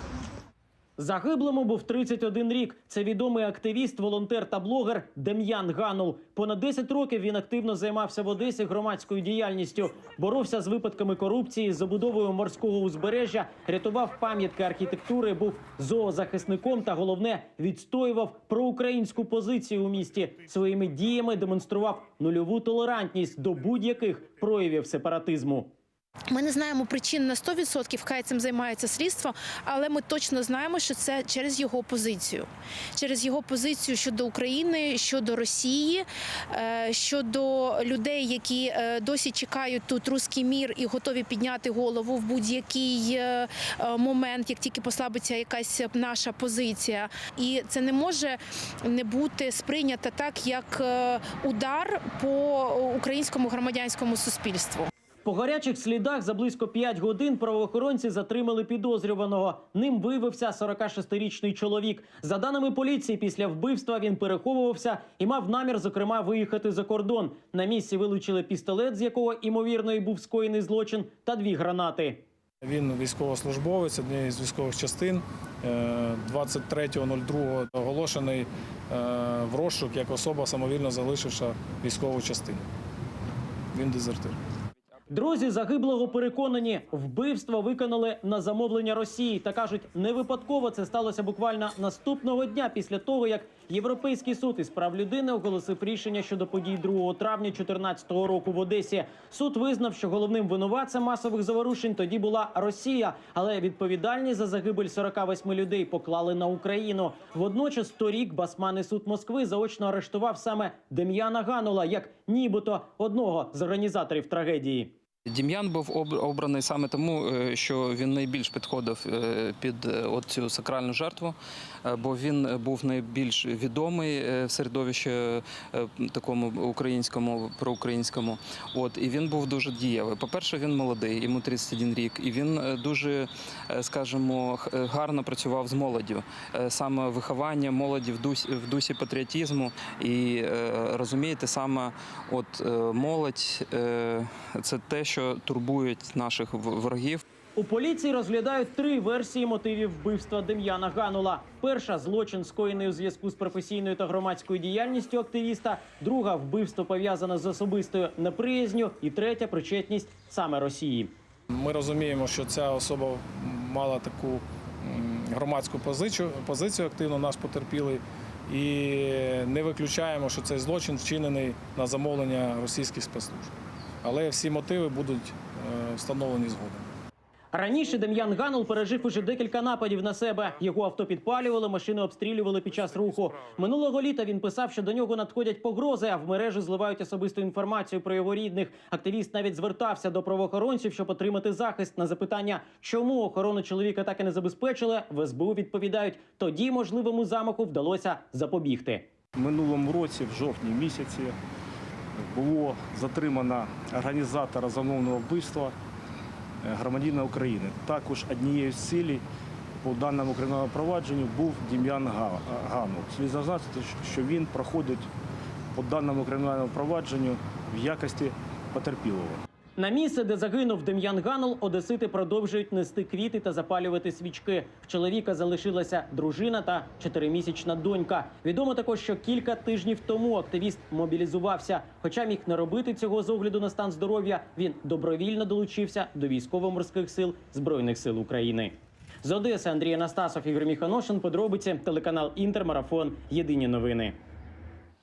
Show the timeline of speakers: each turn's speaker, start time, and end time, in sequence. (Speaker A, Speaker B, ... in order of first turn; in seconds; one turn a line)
Speaker A: 1.0-25.7
Speaker B: 26.3-54.9
Speaker A: 55.2-72.2
Speaker C: 72.6-82.6
Speaker C: 83.7-84.4
Speaker A: 85.1-114.9
Speaker D: 115.3-147.2
Speaker A: 147.6-161.1
Speaker C: 161.5-176.9
Speaker A: 177.5-199.1
Speaker E: 199.3-201.3
Speaker E: 202.2-205.7
Speaker E: 206.6-209.2
Speaker E: 209.8-215.1
Speaker E: 215.7-219.4
Speaker A: 219.8-244.2